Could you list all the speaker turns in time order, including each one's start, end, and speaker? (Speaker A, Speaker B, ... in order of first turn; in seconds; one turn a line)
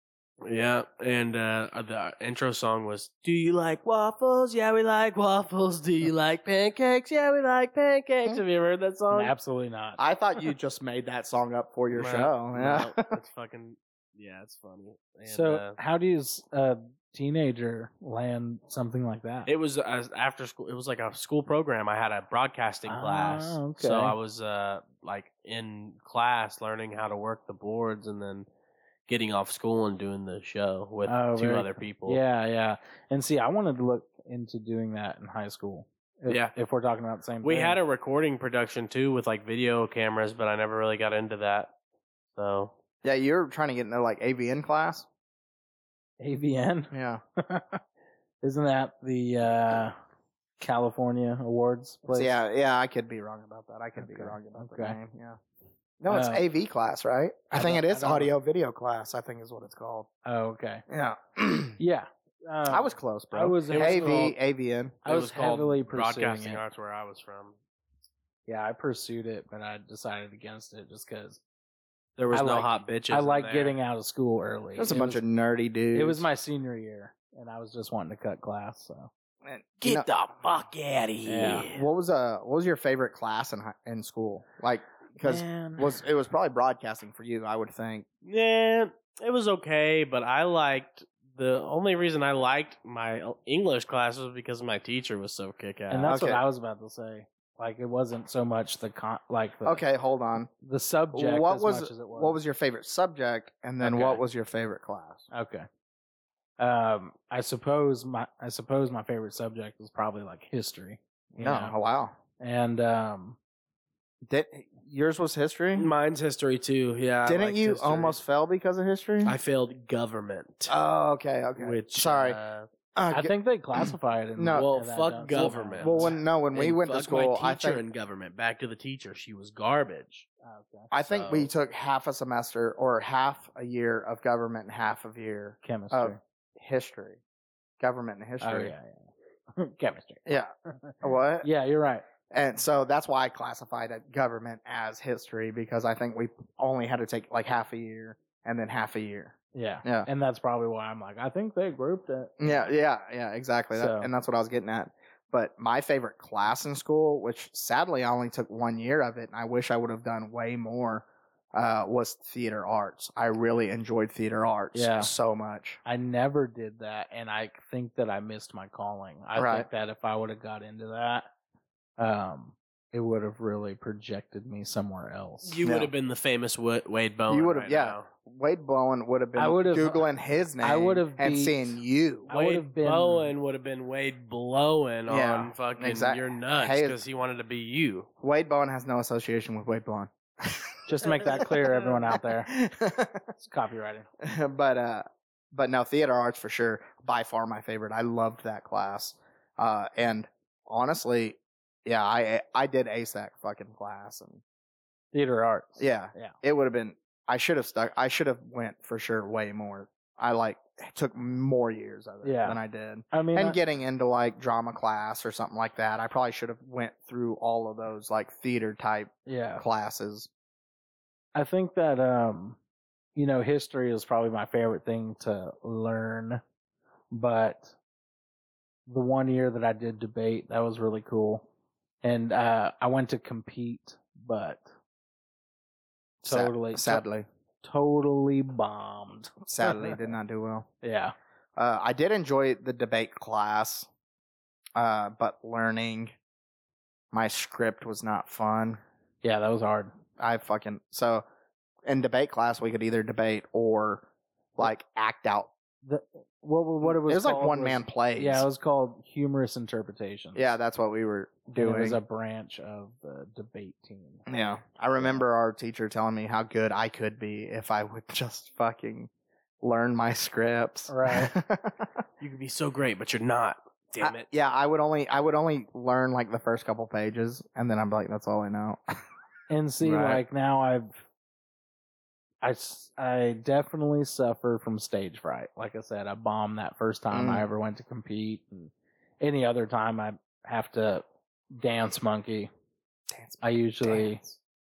Speaker A: 0.4-9.3
Speaker B: 9.1-10.0
Speaker C: 10.0-13.2
Speaker A: 12.0-15.8
Speaker B: 15.3-19.5
Speaker A: 19.5-28.5
Speaker B: 22.9-24.2
Speaker A: 29.1-32.2
Speaker B: 31.1-37.8
Speaker A: 36.3-36.5
Speaker A: 37.4-41.7
Speaker A: 42.3-42.7
Speaker C: 43.0-45.1
Speaker B: 46.2-47.8
Speaker C: 46.9-47.2
Speaker B: 48.4-50.0
Speaker B: 50.6-52.4
Speaker C: 52.1-55.4
Speaker B: 54.0-55.0
Speaker C: 56.0-60.1
Speaker B: 56.1-56.4
Speaker B: 57.5-58.3
Speaker B: 60.2-60.8
Speaker C: 60.9-61.8
Speaker B: 61.8-64.3
Speaker C: 62.7-65.0
Speaker A: 63.7-64.4
Speaker B: 65.0-66.6
Speaker A: 65.0-67.6
Speaker B: 68.5-71.4
Speaker A: 72.2-73.8
Speaker B: 72.3-75.2
Speaker C: 74.8-76.2
Speaker B: 75.9-79.1
Speaker C: 79.4-80.1
Speaker A: 79.8-81.8
Speaker B: 81.2-81.7
Speaker C: 81.7-88.1
Speaker B: 85.2-86.0
Speaker A: 88.2-96.1
Speaker B: 95.9-99.8
Speaker C: 96.1-96.4
Speaker C: 99.7-100.5
Speaker B: 100.6-102.4
Speaker C: 101.1-105.3
Speaker B: 103.8-104.2
Speaker B: 105.3-105.7
Speaker B: 106.6-111.7
Speaker C: 111.3-112.1
Speaker B: 112.4-113.4
Speaker C: 114.2-115.9
Speaker A: 115.8-118.2
Speaker C: 117.3-119.4
Speaker A: 119.2-120.8
Speaker C: 120.7-122.4
Speaker A: 121.6-122.7
Speaker C: 123.0-124.7
Speaker B: 123.1-126.1
Speaker A: 124.5-130.3
Speaker C: 125.3-127.8
Speaker B: 130.4-130.9
Speaker C: 130.9-137.2
Speaker A: 131.1-131.5
Speaker B: 135.6-136.2
Speaker C: 137.8-138.7
Speaker B: 138.4-140.2
Speaker C: 140.3-141.5
Speaker B: 140.7-142.1
Speaker C: 142.3-150.1
Speaker B: 149.5-152.6
Speaker C: 152.4-165.8
Speaker B: 153.7-154.1
Speaker B: 164.7-165.1
Speaker B: 165.8-171.3
Speaker C: 169.4-169.7
Speaker B: 172.0-175.6
Speaker A: 175.5-178.1
Speaker C: 175.6-175.9
Speaker C: 177.3-182.3
Speaker B: 179.4-180.1
Speaker B: 180.6-181.6
Speaker B: 182.3-183.3
Speaker A: 182.3-188.1
Speaker C: 185.1-187.0
Speaker C: 188.2-191.5
Speaker B: 190.9-192.5
Speaker C: 192.1-193.3
Speaker B: 193.3-194.1
Speaker C: 194.2-204.4
Speaker B: 205.1-206.3
Speaker C: 205.8-220.3
Speaker B: 212.2-212.6
Speaker B: 213.1-213.6
Speaker B: 219.3-219.7
Speaker B: 221.3-222.6
Speaker B: 223.2-226.4
Speaker B: 227.1-227.8
Speaker B: 228.9-231.4
Speaker B: 232.0-234.7
Speaker C: 236.2-237.3
Speaker B: 236.3-237.1
Speaker B: 237.6-240.0
Speaker C: 239.5-240.7
Speaker B: 240.8-241.1
Speaker C: 241.6-243.9
Speaker C: 244.8-246.1
Speaker C: 247.1-248.8
Speaker B: 249.2-249.9
Speaker C: 250.2-251.2
Speaker C: 251.9-254.1
Speaker C: 254.6-255.5
Speaker B: 255.8-260.6
Speaker C: 256.8-258.4
Speaker C: 260.4-262.0
Speaker B: 261.6-264.2
Speaker C: 264.3-269.1
Speaker C: 269.6-271.9
Speaker B: 270.9-271.3
Speaker A: 272.2-274.3
Speaker C: 274.0-279.0
Speaker B: 279.5-280.9
Speaker C: 279.8-280.2
Speaker B: 282.4-292.5
Speaker C: 287.1-287.5
Speaker C: 293.1-294.4
Speaker B: 293.4-294.2